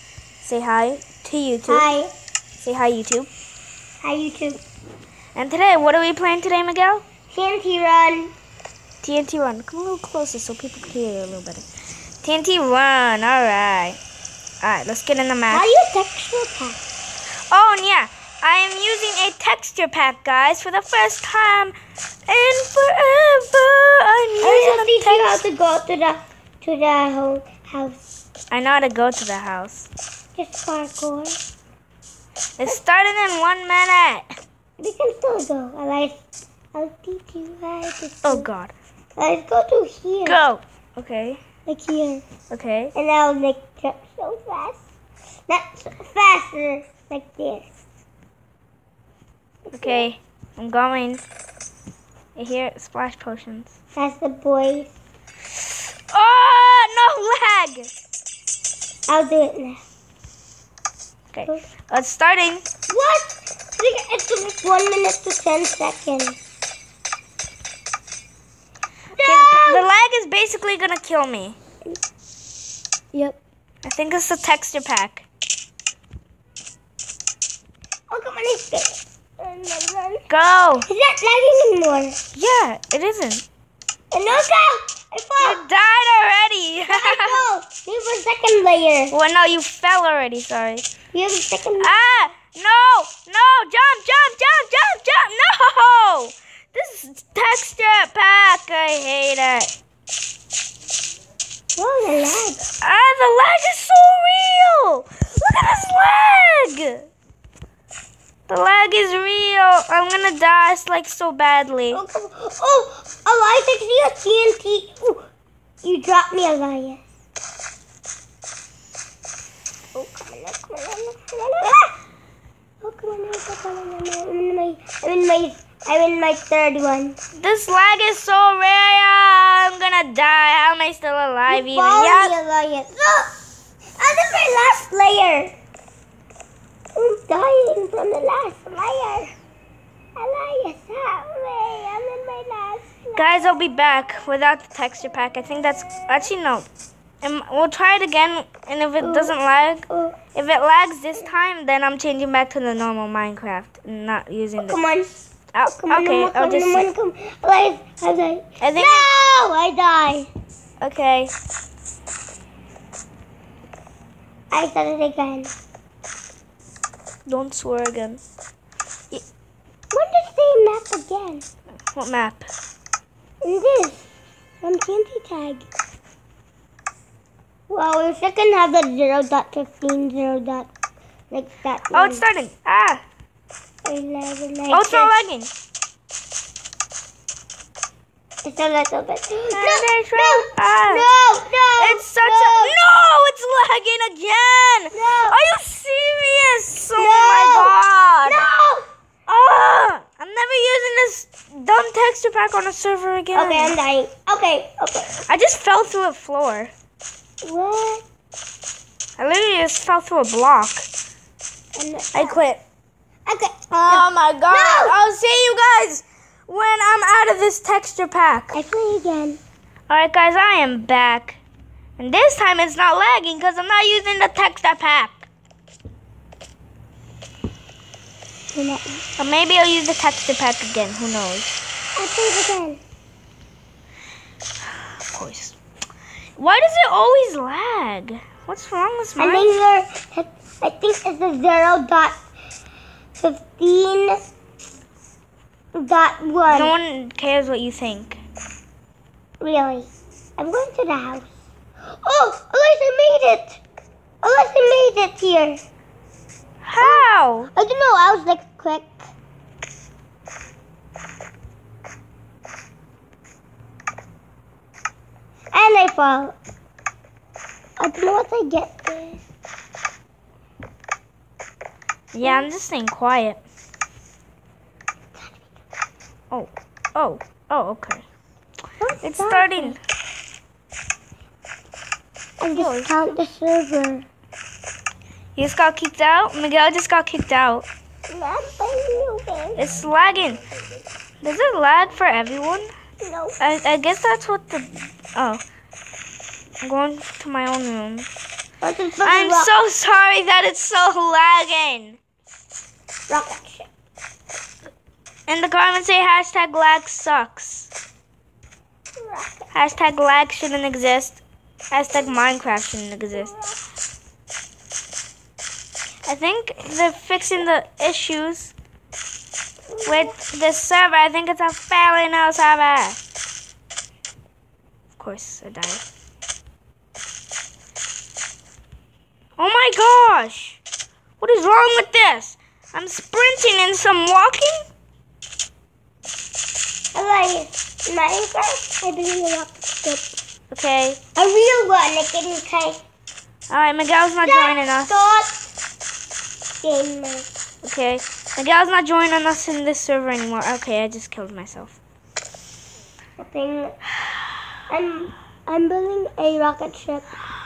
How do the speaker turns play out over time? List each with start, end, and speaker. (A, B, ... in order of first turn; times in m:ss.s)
0:00.4-0:01.9 A
0:01.7-0:02.1 B
0:02.6-0:03.3 A
0:04.0-0:04.6 B
0:05.4-0:07.0 A
0:07.3-0:08.3 B
0:09.0-0:11.6 A
0:12.2-0:14.0 A
0:14.6-0:15.6 A
0:15.5-0:16.8 B
0:17.5-0:21.7 A
0:22.3-0:25.4 A
0:24.4-0:28.0 B
0:28.5-0:29.9 A
0:30.4-0:31.4 B
0:32.6-0:34.4 A
0:34.8-0:36.2 B
0:36.7-0:38.5 B
0:38.2-0:38.7 A
0:39.2-0:40.4 B
0:40.2-0:41.4 A
0:41.7-0:42.2 B
0:42.5-0:42.9 A
0:43.0-0:44.8 B
0:45.5-0:47.7 B
0:49.7-0:50.1 B
0:49.7-0:51.2 A
0:52.4-0:53.8 A
0:54.0-0:54.9 B
0:56.1-0:57.9 A
0:59.1-0:59.8 B
1:01.3-1:02.6 A
1:02.9-1:06.4 B
1:09.2-1:09.9 B
1:09.2-1:11.6 A
1:13.8-1:15.3 A
1:18.1-1:20.3 B
1:20.3-1:20.9 A
1:20.9-1:22.2 B
1:22.3-1:23.4 A
1:24.1-1:25.6 B
1:25.4-1:27.4 A
1:26.9-1:29.2 B
1:29.1-1:30.9 A
1:31.1-1:32.3 B
1:31.8-1:39.7 A
1:41.8-1:42.6 B
1:42.8-1:47.1 A
1:48.5-1:52.0 A
1:51.9-1:55.2 B
1:55.8-1:57.0 B
1:59.9-2:02.0 B
2:02.8-2:07.2 B
2:07.4-2:12.4 A
2:11.5-2:13.3 B
2:14.0-2:15.5 B
2:17.0-2:19.3 B
2:20.2-2:23.5 B
2:23.2-2:26.7 A
2:27.2-2:34.8 A
2:29.0-2:29.3 B
2:29.9-2:30.2 B
2:34.6-2:35.1 B
2:35.5-2:36.9 A
2:35.7-2:40.3 B
2:38.6-2:39.1 A
2:40.8-2:41.3 A
2:44.5-2:45.5 B
2:47.3-2:48.2 A
2:49.9-2:51.4 B
2:51.9-2:52.5 A
2:53.4-2:54.1 B
2:54.6-2:55.7 B
2:57.7-3:00.7 B
3:01.3-3:02.2 B
3:01.9-3:03.0 A
3:03.8-3:05.1 B
3:04.7-3:05.5 A
3:08.4-3:12.8 B
3:09.5-3:11.1 A
3:11.8-3:18.5 A
3:14.9-3:15.4 B
3:17.0-3:17.7 B
3:18.2-3:18.8 B
3:19.3-3:23.8 A
3:23.3-3:25.2 B
3:25.3-3:26.7 A
3:27.4-3:28.0 B
3:29.2-3:30.9 A
3:31.8-3:32.4 B
3:32.1-3:32.6 A
3:33.3-3:35.0 B
3:33.9-3:38.6 A
3:38.5-3:39.4 B
3:39.9-3:41.4 A
3:42.0-3:45.3 A
3:48.5-3:49.0 B
3:49.2-3:51.6 A
3:52.0-3:52.8 B
3:55.1-3:55.6 A
3:56.4-3:59.5 A
3:59.2-4:02.2 B
4:03.2-4:04.3 B
4:05.7-4:06.7 B
4:06.5-4:08.2 A
4:09.4-4:11.3 B
4:12.0-4:13.6 B
4:14.2-4:15.6 B
4:16.6-4:17.5 A
4:16.8-4:19.0 B
4:25.5-4:26.4 B
4:27.8-4:29.2 B
4:32.1-4:33.4 A
4:32.2-4:32.5 B
4:35.2-4:35.5 B
4:36.3-4:38.0 A
4:38.8-4:39.8 B
4:39.0-4:39.8 A
4:42.4-4:44.0 B
4:42.6-4:42.9 A
4:45.4-4:47.7 A
4:48.1-4:49.6 B
4:49.6-4:50.4 A
4:51.2-4:52.7 A
4:53.0-4:53.4 B
4:53.4-4:55.4 A
4:56.6-4:58.1 A
4:58.6-4:59.5 B
4:59.0-5:02.0 A
5:03.1-5:03.7 B
5:05.3-5:07.7 A
5:09.0-5:09.5 B
5:09.5-5:13.3 A
5:13.1-5:13.6 B
5:16.0-5:18.5 A
5:19.7-5:20.2 B
5:19.8-5:23.0 A
5:25.0-5:25.8 A
5:29.4-5:30.6 A
5:31.2-5:34.6 A
5:36.9-5:40.1 B
5:40.5-5:41.0 A
5:41.2-5:42.8 B
5:43.5-5:45.0 A
5:44.2-5:45.4 B
5:46.6-5:47.3 B
5:47.6-5:51.8 A
5:53.2-5:53.8 B
5:54.7-5:57.1 B